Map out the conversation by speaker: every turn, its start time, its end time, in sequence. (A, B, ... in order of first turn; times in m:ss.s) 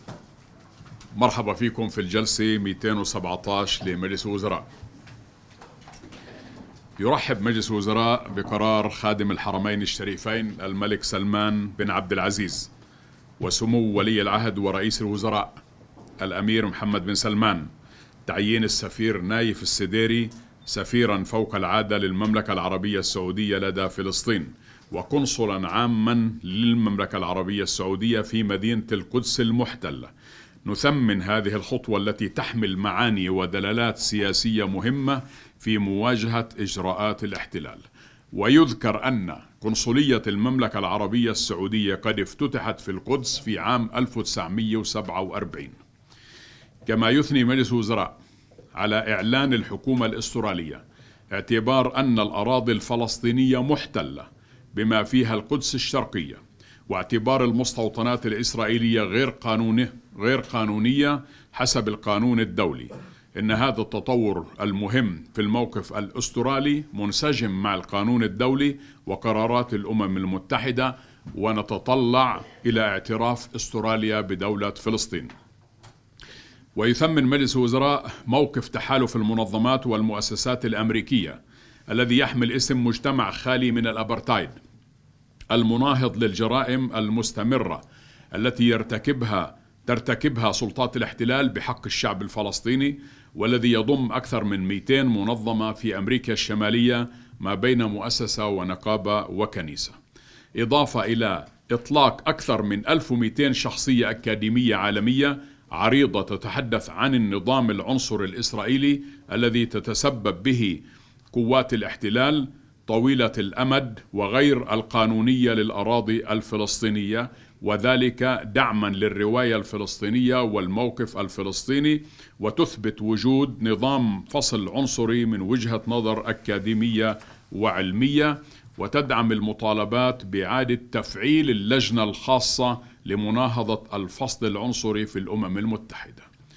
0:01.1-0:04.7 A
0:07.0-0:12.7 A
0:13.4-0:15.6 A
0:16.2-0:17.7 A
0:18.2-0:30.1 A
0:30.6-0:45.7 A
0:46.8-0:48.2 A
0:48.7-1:15.3 A
1:16.8-1:24.6 A
1:25.5-1:27.8 A
1:28.3-1:40.0 A
1:40.6-2:16.3 A